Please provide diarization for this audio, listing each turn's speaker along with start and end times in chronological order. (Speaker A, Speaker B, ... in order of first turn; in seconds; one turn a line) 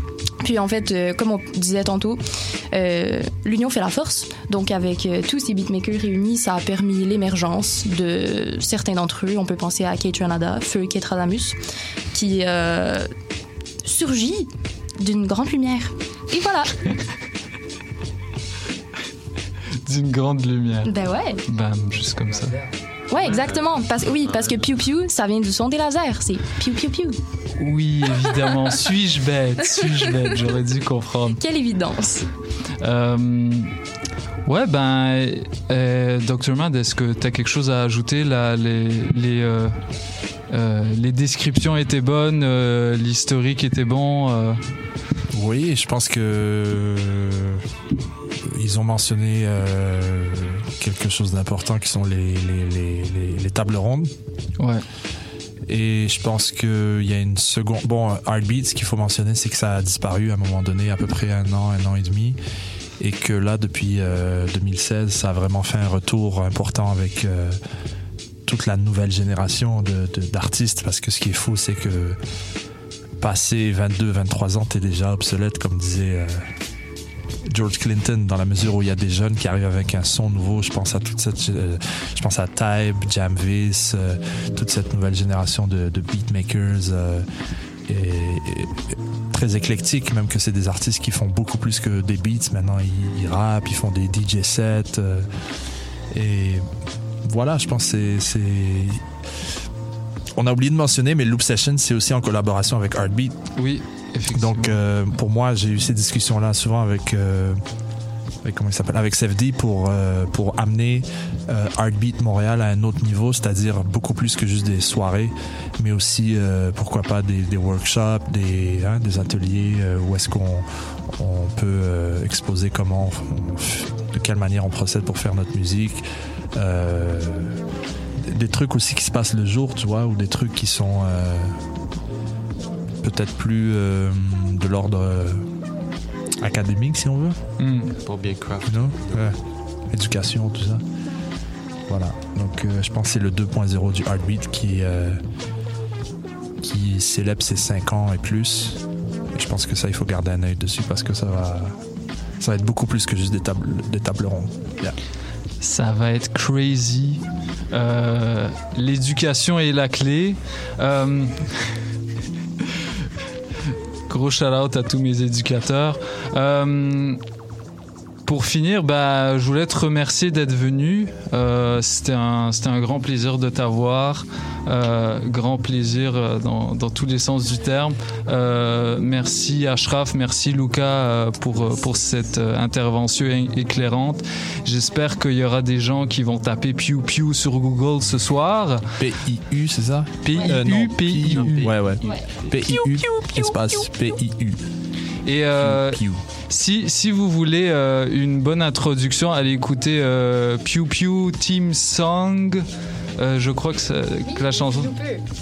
Speaker A: 0.4-11.6
Speaker A: 12.1-13.1
Speaker A: 13.8-16.7
Speaker B: 19.8-20.9
Speaker A: 20.9-21.4
Speaker B: 21.5-22.6
Speaker A: 23.1-27.2
Speaker C: 24.3-24.5
Speaker B: 27.6-31.4
Speaker A: 31.4-32.3
Speaker B: 32.8-33.7
Speaker B: 34.5-39.8
Speaker B: 40.5-44.6
Speaker D: 45.3-47.6
Speaker D: 48.3-54.1
Speaker B: 54.6-54.8
Speaker D: 55.7-62.4
Speaker D: 63.0-67.6
Speaker D: 68.4-72.2
Speaker D: 73.2-76.5
Speaker D: 77.4-87.2
Speaker D: 87.9-95.3
Speaker D: 96.1-96.7
Speaker D: 97.2-99.0
Speaker D: 100.3-103.4
Speaker B: 103.6-104.8
Speaker D: 104.3-107.6
Speaker D: 108.4-126.0
Speaker D: 126.5-127.6
Speaker D: 128.2-131.6
Speaker D: 133.0-135.4
Speaker D: 136.4-137.4
Speaker B: 137.6-137.9
Speaker C: 137.9-139.3
Speaker D: 138.7-139.4
Speaker D: 139.9-140.8
Speaker D: 141.9-145.2
Speaker D: 146.6-148.8
Speaker D: 149.3-151.8
Speaker D: 152.4-155.0
Speaker B: 155.6-161.7
Speaker B: 164.1-167.2
Speaker B: 168.2-188.8
Speaker D: 189.0-194.6
Speaker B: 190.2-191.9
Speaker C: 191.4-191.8
Speaker B: 192.5-193.8
Speaker B: 195.2-202.7
Speaker D: 195.6-196.2
Speaker B: 203.2-205.0
Speaker A: 204.6-205.2